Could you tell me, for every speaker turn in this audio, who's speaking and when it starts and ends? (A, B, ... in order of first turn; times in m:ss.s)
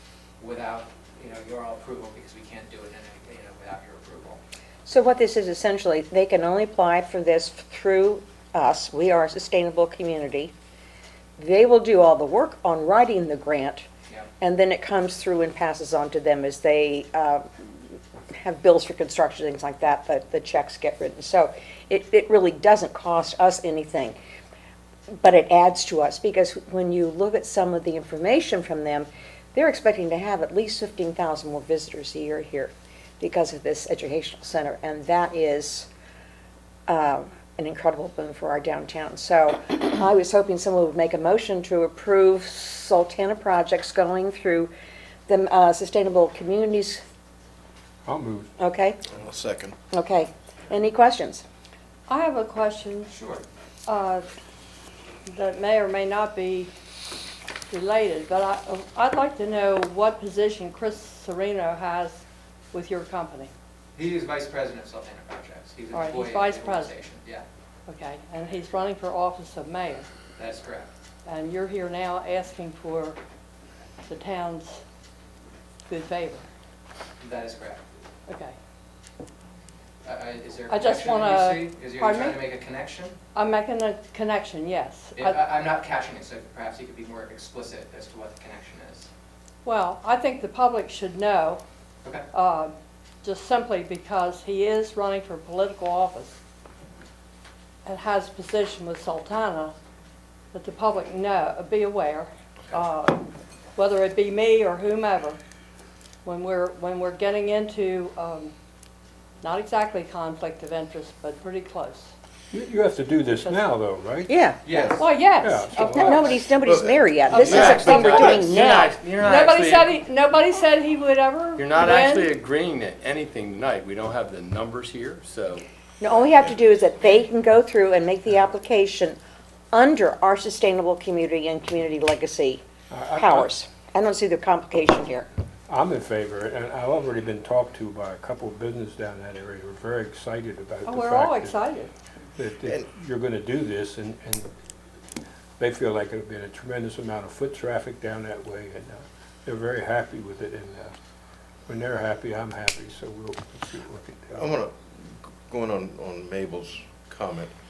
0:00.4-0:04.4 A
0:04.9-0:10.5 B
0:11.4-0:13.9 B
0:14.4-0:17.8 B
0:18.3-0:24.2 B
0:25.2-0:35.9 B
0:36.9-0:44.7 B
0:45.3-0:47.0 B
0:48.1-0:48.5 C
0:48.6-0:49.0 B
0:49.1-0:49.8 D
0:49.9-0:51.4 B
0:52.1-0:53.1 E
0:53.1-0:53.4 A
0:53.9-0:54.3 E
0:55.3-0:56.7 E
0:57.7-1:02.2 E
1:02.7-1:03.5 E
1:04.0-1:07.4 A
1:05.9-1:07.0 E
1:07.9-1:10.1 E
1:10.4-1:10.9 A
1:11.3-1:13.2 E
1:14.1-1:14.8 E
1:15.9-1:16.4 E
1:17.2-1:17.8 A
1:18.3-1:18.6 E
1:20.0-1:23.2 A
1:20.7-1:22.4 E
1:23.4-1:25.4 E
1:25.2-1:29.1 A
1:29.6-1:31.6 E
1:32.3-1:32.7 E
1:33.2-1:36.4 E
1:37.9-1:39.7 E
1:40.5-1:45.4 E
1:46.2-1:48.5 E
1:49.4-1:52.1 E
1:52.5-1:54.3 C
1:53.4-1:53.8 E
1:54.3-1:54.6 B
1:54.7-1:55.0 A
1:54.7-1:55.1 D
1:54.9-1:56.5 E
1:55.4-1:56.4 C
1:55.9-1:59.0 B
1:56.2-1:57.4 D
1:57.3-1:57.7 E
1:57.4-2:00.0 F
1:57.9-1:58.4 C
1:59.2-2:02.4 E
2:01.6-2:06.2 F
2:06.0-2:09.2 B
2:09.7-2:15.3 B
2:12.9-2:13.5 C
2:15.7-2:21.7 C
2:20.8-2:21.9 E
2:22.4-2:24.5 C
2:22.6-2:22.9 D
2:25.6-2:30.9 C
2:31.7-2:34.5 C
2:34.4-2:37.5 D